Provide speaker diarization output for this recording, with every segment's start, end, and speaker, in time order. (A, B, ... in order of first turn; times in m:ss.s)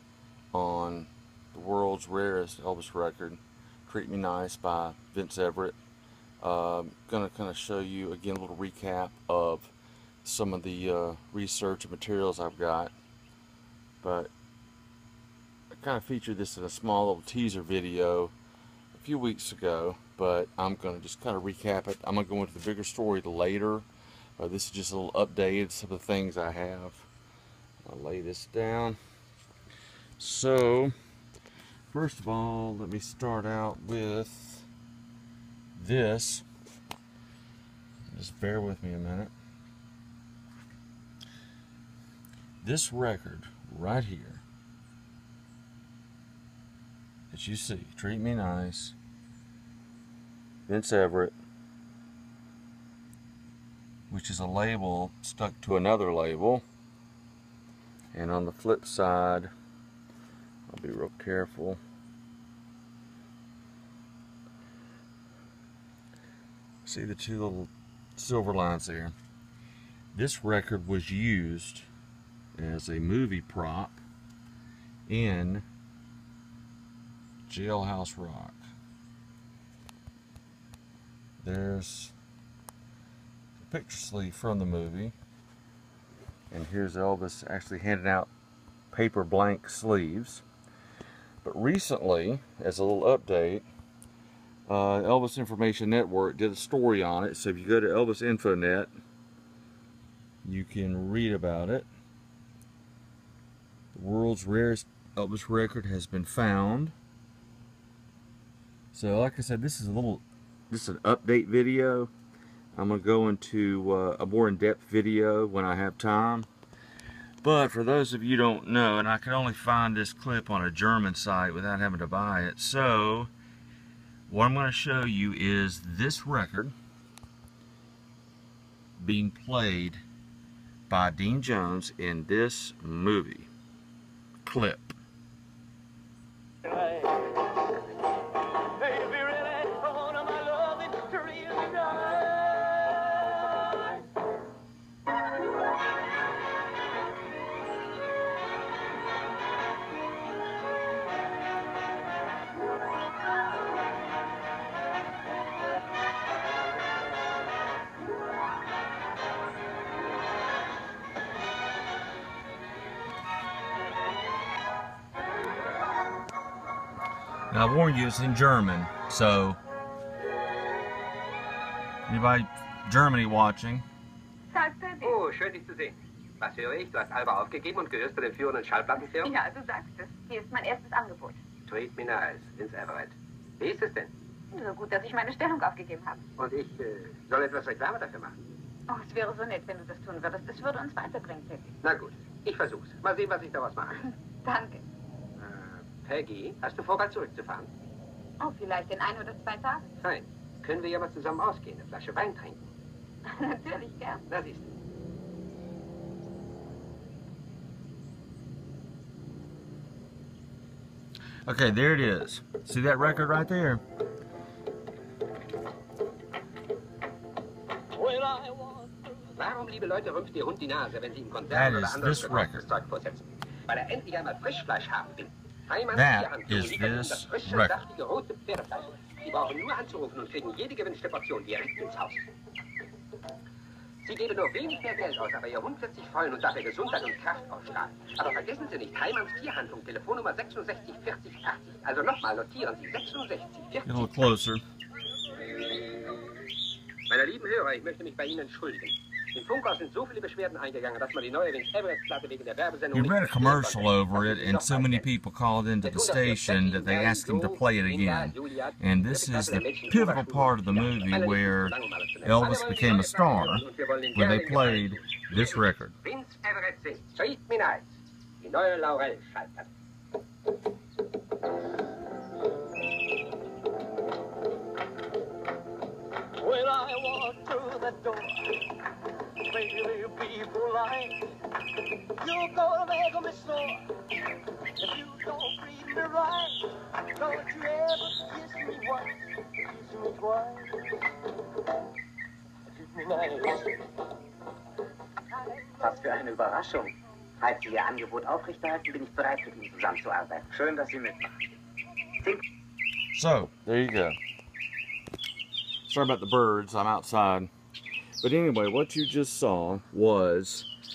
0:00.5-0:05.7 A
0:06.4-0:09.7 A
0:10.2-0:12.9 A
0:14.0-0:14.3 A
0:15.7-0:18.3 A
0:18.9-0:23.8 A
0:24.4-0:27.1 A
0:27.8-0:29.0 A
0:30.2-0:30.9 A
0:31.9-0:34.6 A
0:35.8-0:36.4 A
0:38.1-0:39.3 A
0:42.6-0:44.4 A
0:47.3-0:49.0 A
0:50.7-0:51.3 A
0:54.1-0:56.6 A
0:58.1-0:59.5 A
1:00.7-1:01.8 A
1:06.8-1:09.1 A
1:10.1-1:11.8 A
1:12.6-1:14.0 A
1:15.1-1:15.6 A
1:17.5-1:18.6 A
1:21.4-1:22.1 A
1:23.6-1:25.1 A
1:26.5-1:28.3 A
1:28.9-1:30.4 A
1:31.4-1:33.7 A
1:34.7-1:38.9 A
1:40.4-1:41.9 A
1:43.9-1:46.9 A
1:48.9-1:52.1 A
1:52.8-1:56.5 A
1:57.4-2:03.3 A
2:04.3-2:06.7 A
2:09.0-2:10.0 A
2:10.9-2:13.5 A
2:14.4-2:15.0 A
2:16.6-2:17.5 B
2:18.6-2:24.0 B
2:47.5-2:49.6 A
2:52.1-2:53.8 A
2:54.5-2:55.2 C
2:55.0-2:59.3 D
2:59.0-3:01.4 C
3:01.6-3:04.1 D
3:04.5-3:06.2 C
3:06.4-3:08.4 D
3:08.9-3:11.7 C
3:11.8-3:14.0 D
3:14.2-3:14.8 C
3:15.4-3:17.7 D
3:18.4-3:19.9 C
3:20.0-3:22.6 D
3:23.2-3:24.2 C
3:24.3-3:24.6 D
3:31.4-3:33.8 A
3:37.9-3:39.2 B
3:39.3-3:52.3 D
3:41.5-3:42.6 A
3:45.9-3:47.8 A
3:54.0-4:04.0 D
4:03.8-4:04.6 A
4:07.1-4:15.1 D
4:12.9-4:25.9 A
4:15.8-4:29.7 D
4:36.4-4:51.1 B
4:52.8-4:53.8 B
4:55.5-4:55.7 B
4:55.8-5:01.4 E
5:03.1-5:04.2 A
5:05.9-5:07.5 A
5:08.2-5:10.7 A